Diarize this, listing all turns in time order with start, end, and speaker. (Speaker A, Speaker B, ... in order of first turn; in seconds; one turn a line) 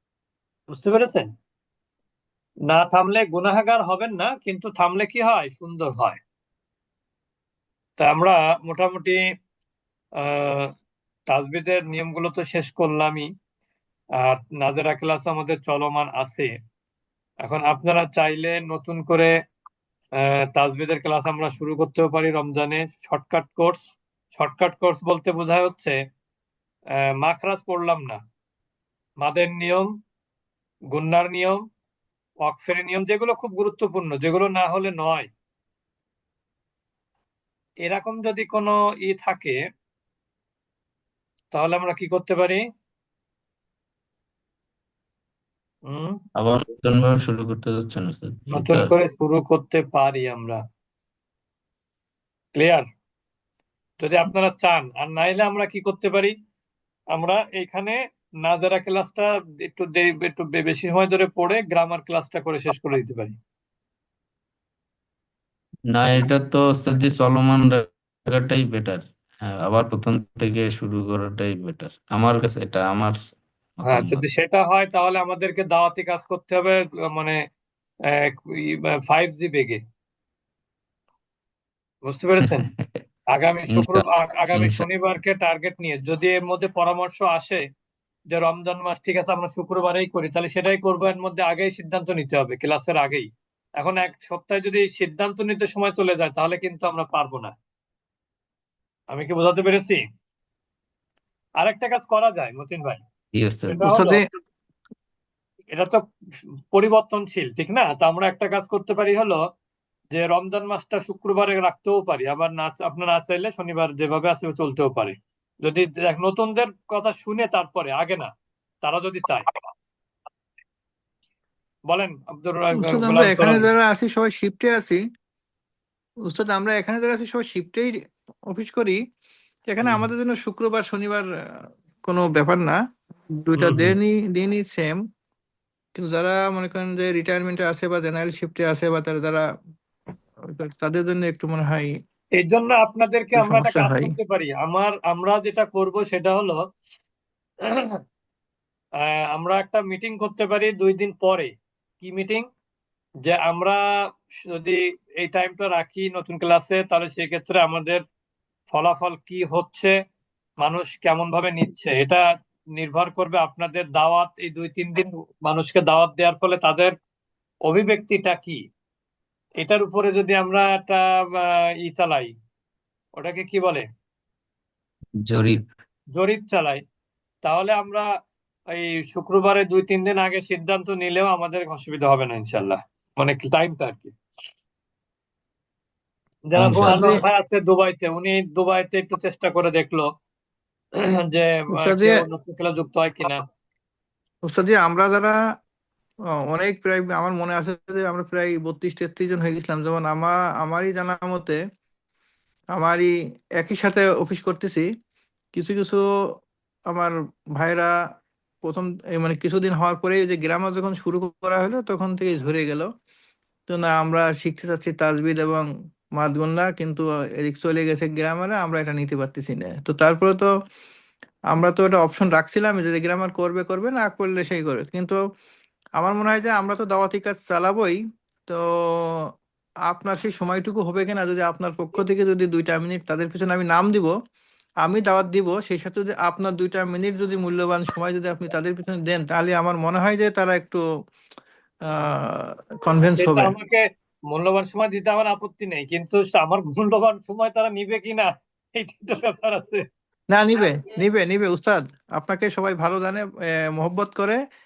Speaker A: 0.7-1.3
Speaker A: 2.7-6.2
Speaker A: 8.0-9.2
Speaker A: 10.2-10.7
Speaker A: 11.3-13.3
Speaker A: 14.2-16.5
Speaker A: 17.4-19.3
Speaker A: 20.5-26.0
Speaker A: 27.2-28.2
Speaker A: 29.2-29.9
Speaker A: 30.9-31.6
Speaker A: 32.4-35.3
Speaker A: 37.9-39.6
Speaker A: 41.5-42.6
Speaker A: 45.9-46.1
Speaker B: 46.4-48.9
Speaker A: 48.5-50.6
Speaker A: 52.6-52.9
Speaker A: 54.0-56.3
Speaker A: 57.1-63.4
Speaker B: 65.9-73.2
Speaker B: 73.8-74.2
Speaker A: 73.9-77.4
Speaker A: 79.1-79.8
Speaker A: 82.1-82.7
Speaker A: 83.3-87.6
Speaker B: 83.7-84.9
Speaker A: 88.3-93.3
Speaker A: 93.8-97.5
Speaker A: 99.1-100.0
Speaker A: 101.6-103.0
Speaker B: 103.4-103.9
Speaker A: 103.7-104.2
Speaker C: 103.8-104.2
Speaker A: 105.7-106.0
Speaker A: 106.7-109.4
Speaker A: 110.1-118.3
Speaker A: 118.8-119.5
Speaker A: 121.9-123.7
Speaker C: 122.8-125.0
Speaker C: 126.3-127.9
Speaker C: 128.5-129.0
Speaker C: 129.7-131.2
Speaker B: 129.8-130.1
Speaker C: 132.0-132.8
Speaker C: 133.4-135.0
Speaker B: 133.6-134.0
Speaker C: 135.9-139.4
Speaker C: 140.5-141.9
Speaker A: 142.4-146.6
Speaker C: 143.4-144.1
Speaker A: 147.7-148.0
Speaker A: 149.0-152.4
Speaker A: 153.2-153.8
Speaker A: 154.5-158.0
Speaker A: 158.7-159.9
Speaker A: 160.6-162.2
Speaker A: 162.8-166.9
Speaker A: 167.7-168.6
Speaker A: 169.6-172.3
Speaker A: 173.2-173.8
Speaker B: 175.2-175.6
Speaker A: 176.2-176.8
Speaker A: 177.4-178.1
Speaker A: 178.7-184.1
Speaker A: 186.5-190.1
Speaker B: 186.6-187.1
Speaker C: 186.8-187.2
Speaker A: 191.3-193.4
Speaker C: 191.8-192.2
Speaker C: 194.5-195.3
Speaker C: 196.5-201.6
Speaker C: 202.7-204.8
Speaker C: 205.5-206.0
Speaker C: 206.9-207.9
Speaker C: 208.6-212.9
Speaker C: 213.7-220.5
Speaker C: 221.5-225.2
Speaker C: 226.0-229.3
Speaker C: 229.9-234.1
Speaker C: 234.8-240.8
Speaker C: 242.0-243.5
Speaker A: 243.1-249.8
Speaker C: 250.3-254.4